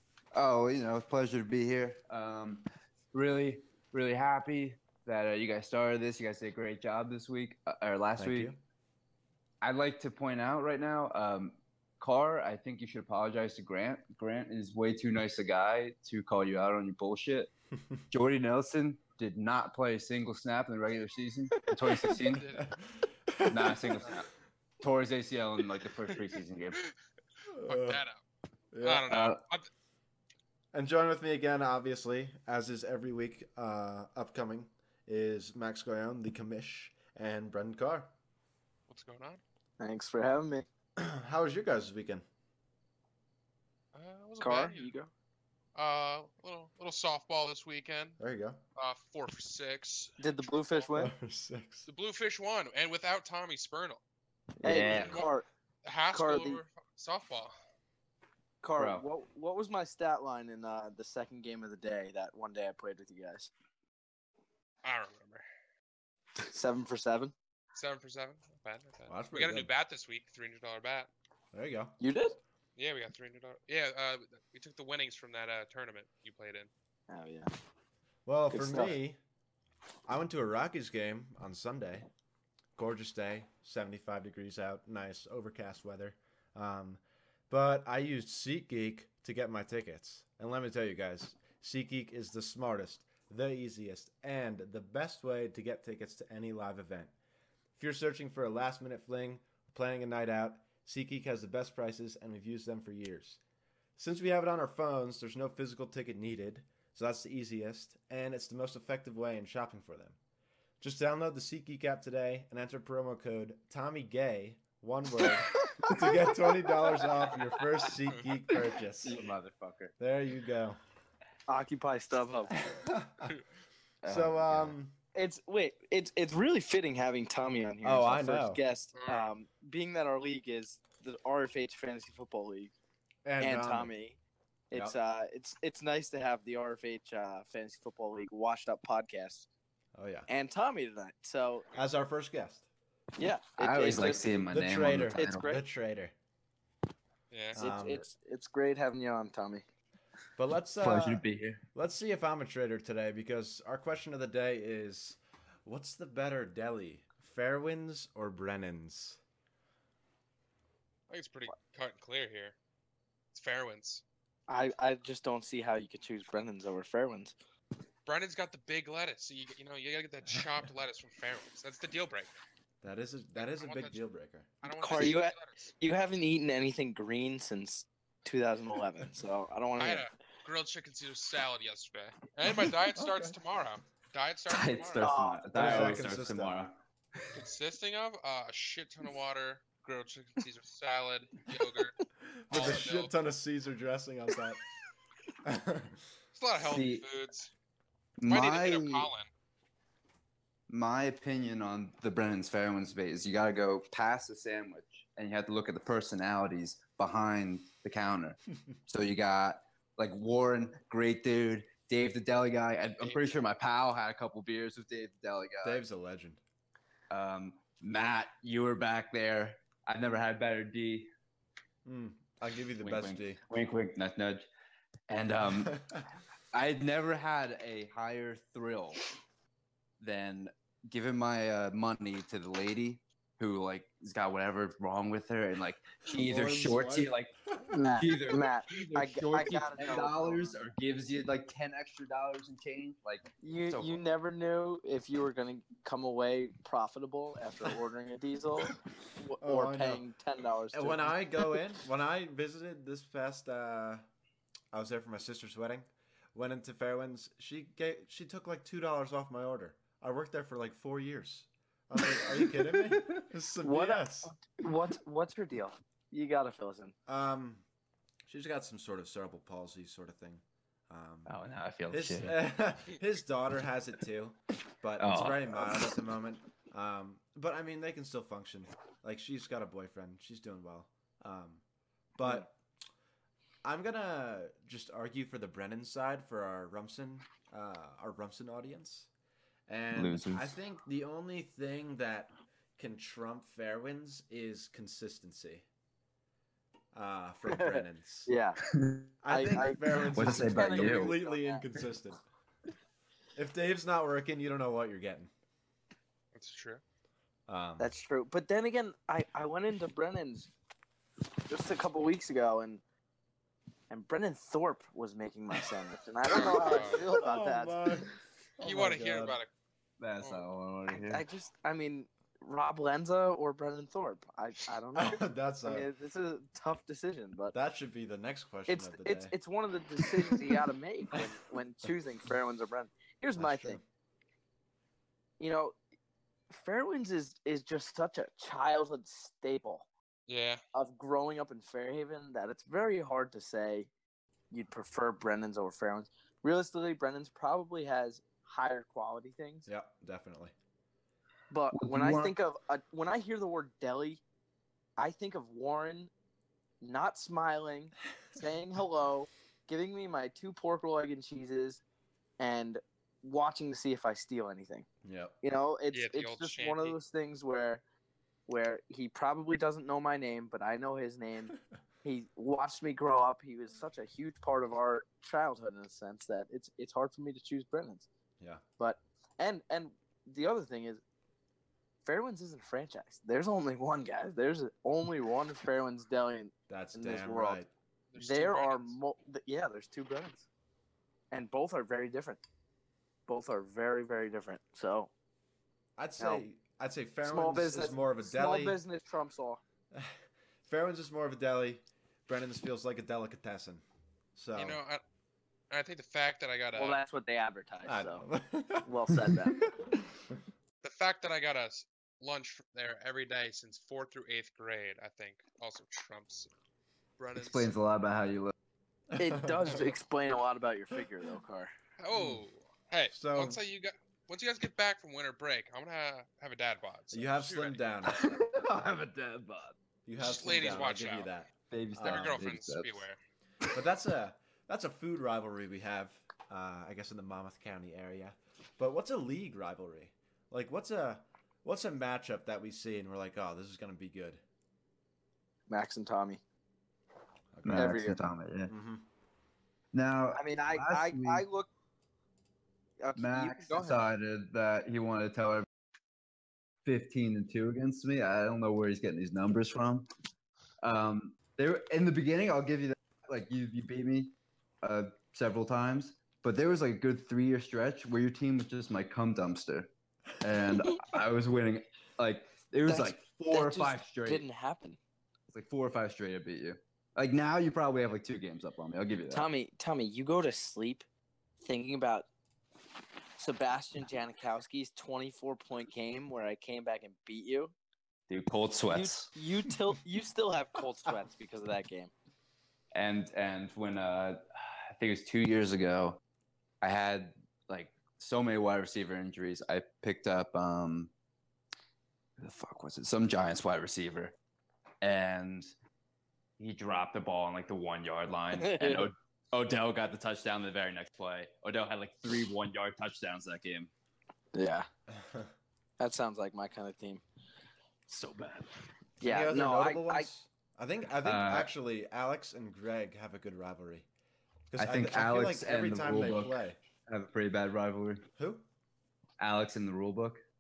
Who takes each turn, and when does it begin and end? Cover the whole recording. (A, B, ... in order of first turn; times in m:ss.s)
0:00.3-0:08.5 A
0:08.2-0:08.6 B
0:09.6-0:17.5 A
0:18.1-0:22.5 A
0:22.2-0:22.7 C
0:23.3-0:24.2 B
0:23.5-0:24.3 A
0:24.8-0:26.8 A
0:27.5-0:28.0 B
0:27.6-0:28.2 C
0:28.7-0:29.1 B
0:28.8-0:29.7 C
0:29.1-0:29.4 A
0:30.7-0:38.1 B
0:38.9-0:39.4 C
0:39.8-0:40.7 D
0:41.0-0:42.2 B
0:43.9-0:44.9 C
0:44.4-0:45.1 D
0:45.8-0:48.2 C
0:48.2-0:48.6 B
0:48.8-0:50.2 C
0:50.2-0:51.1 D
0:51.0-0:51.9 B
0:51.9-0:54.0 C
0:54.6-0:55.5 D
0:54.6-0:55.2 A
0:54.9-0:55.3 C
0:55.8-0:57.5 C
0:56.1-0:56.6 D
0:58.6-1:03.5 D
0:58.8-0:59.0 A
1:04.8-1:05.4 C
1:06.4-1:07.3 D
1:07.8-1:11.1 C
1:09.1-1:09.7 B
1:11.5-1:12.0 B
1:12.0-1:12.4 D
1:12.8-1:16.7 C
1:17.1-1:17.5 D
1:18.3-1:19.2 B
1:18.5-1:19.0 D
1:20.1-1:22.1 B
1:22.8-1:37.1 B
1:37.8-1:43.4 B
1:44.0-1:50.2 B
1:50.8-1:59.2 B
1:59.0-1:59.9 A
2:00.0-2:00.8 B
2:01.5-2:02.7 D
2:02.7-2:03.4 B
2:04.0-2:04.8 A
2:04.1-2:05.0 B
2:05.2-2:12.7 D
2:07.8-2:08.6 B
2:09.0-2:09.3 C
2:13.2-2:13.9 B
2:13.4-2:14.2 D
2:14.7-2:19.5 D
2:20.0-2:20.3 B
2:20.3-2:21.7 D
2:21.7-2:22.7 B
2:23.2-2:24.4 D
2:23.6-2:25.6 A
2:24.5-2:26.1 B
2:25.1-2:25.6 D
2:27.3-2:27.6 C
2:27.5-2:28.0 B
2:27.6-2:29.6 D
2:30.4-2:39.2 B
2:30.8-2:31.6 A
2:41.1-2:42.6 C
2:43.3-2:44.0 C
2:44.5-2:47.4 D
2:48.1-2:52.3 C
2:52.8-2:54.5 B
2:53.4-2:54.0 C
2:54.6-2:55.6 C
2:54.8-3:00.1 D
2:59.8-3:05.1 C
3:03.0-3:03.4 B
3:04.5-3:06.8 A
3:05.0-3:05.9 D
3:05.5-3:06.6 B
3:07.3-3:12.0 C
3:12.2-3:14.6 B
3:12.5-3:13.1 C
3:15.4-3:16.0 B
3:16.4-3:17.5 C
3:16.6-3:17.0 A
3:18.2-3:19.1 A
3:18.3-3:19.3 C
3:20.7-3:35.8 A
3:33.0-3:33.3 C
3:35.6-3:36.4 B
3:37.1-3:41.1 A
3:41.8-3:43.4 B
3:42.8-3:44.5 A
3:45.1-3:45.8 A
3:45.6-3:46.1 B
3:46.5-3:49.1 A
3:50.0-3:57.3 A
3:56.1-3:57.7 B
3:57.7-4:00.6 D
3:58.0-4:04.0 A
4:03.4-4:11.1 D
4:09.4-4:10.0 B
4:10.7-4:14.0 B
4:14.7-4:24.3 B
4:23.6-4:26.9 D
4:27.1-4:27.6 B
4:28.3-4:31.3 B
4:31.3-4:32.4 A
4:31.9-4:41.6 B
4:35.0-4:35.9 A
4:42.2-4:42.5 B
4:43.6-4:49.1 B
4:49.7-4:55.6 B
4:49.9-4:50.6 A
4:56.9-4:58.3 B
4:57.5-4:58.6 D
4:58.7-4:59.1 A
4:59.2-5:02.2 B
4:59.3-5:01.7 D
4:59.9-5:01.2 A
5:03.4-5:05.3 B
5:06.3-5:06.8 C
5:07.5-5:07.9 B
5:07.8-5:10.5 D
5:11.5-5:12.8 D
5:13.9-5:17.8 D
5:16.3-5:17.0 C
5:16.3-5:19.4 B
5:18.6-5:19.5 C
5:20.0-5:21.2 A
5:20.9-5:27.6 D
5:25.0-5:25.9 B
5:27.5-5:29.3 B
5:28.7-5:33.8 D
5:33.4-5:33.8 B
5:35.4-5:35.8 D
5:36.5-5:39.9 D
5:40.3-5:40.6 C
5:40.7-5:43.9 D
5:44.5-5:49.7 D
5:49.7-5:50.5 B
5:51.5-5:54.2 D
5:51.7-5:52.3 A
5:55.0-5:56.1 D
5:56.8-6:01.8 D
6:02.4-6:04.9 D
6:05.0-6:05.4 B
6:05.4-6:07.8 D
6:05.9-6:07.0 C
6:08.5-6:18.1 D
6:18.8-6:21.0 D
6:22.0-6:27.6 D
6:26.7-6:27.7 B
6:28.1-6:29.0 C
6:28.2-6:30.5 D
6:31.3-6:32.4 D
6:33.3-6:35.1 D
6:36.0-6:38.8 B
6:37.2-6:39.6 D
6:39.9-6:43.8 B
6:44.4-6:44.8 B
6:44.6-6:45.0 C
6:45.7-6:47.0 C
6:46.7-6:48.2 D
6:47.8-6:50.0 B
6:48.8-6:49.6 D
6:50.8-6:56.5 C
6:57.2-6:57.7 C
6:57.4-6:58.5 A
6:59.1-6:59.8 B
6:59.2-7:01.7 D
7:02.0-7:07.8 C
7:02.1-7:02.4 B
7:03.1-7:03.6 B
7:07.1-7:08.7 B
7:08.0-7:09.7 A
7:10.1-7:12.5 B
7:10.2-7:11.3 C
7:11.7-7:13.0 A
7:12.0-7:13.2 C
7:13.7-7:24.4 B
7:25.7-7:26.4 D
7:27.6-7:28.0 B
7:27.6-7:28.7 A
7:27.7-7:28.2 D
7:28.7-7:29.1 B
7:29.9-7:31.4 A
7:30.3-7:31.7 D
7:33.0-7:34.1 D
7:33.2-7:35.7 A
7:36.8-7:40.1 A
7:40.8-7:54.5 A
7:52.9-7:55.0 D
7:55.5-7:59.5 A
7:59.3-8:01.1 D
8:01.6-8:02.3 D
8:03.4-8:07.8 D
8:08.3-8:09.3 A
8:08.9-8:12.1 D
8:12.9-8:16.2 A
8:16.8-8:21.1 A
8:22.4-8:24.4 A
8:25.0-8:25.7 A
8:26.6-8:33.9 A
8:28.5-8:29.1 D
8:34.6-8:34.9 D
8:35.1-8:35.5 B
8:36.0-8:37.2 D
8:38.1-8:38.6 A
8:39.2-8:40.3 D
8:39.2-8:44.1 B
8:41.2-8:41.7 A
8:44.7-8:46.8 B
8:44.8-8:48.3 A
8:48.4-8:48.7 B
8:49.4-8:50.4 A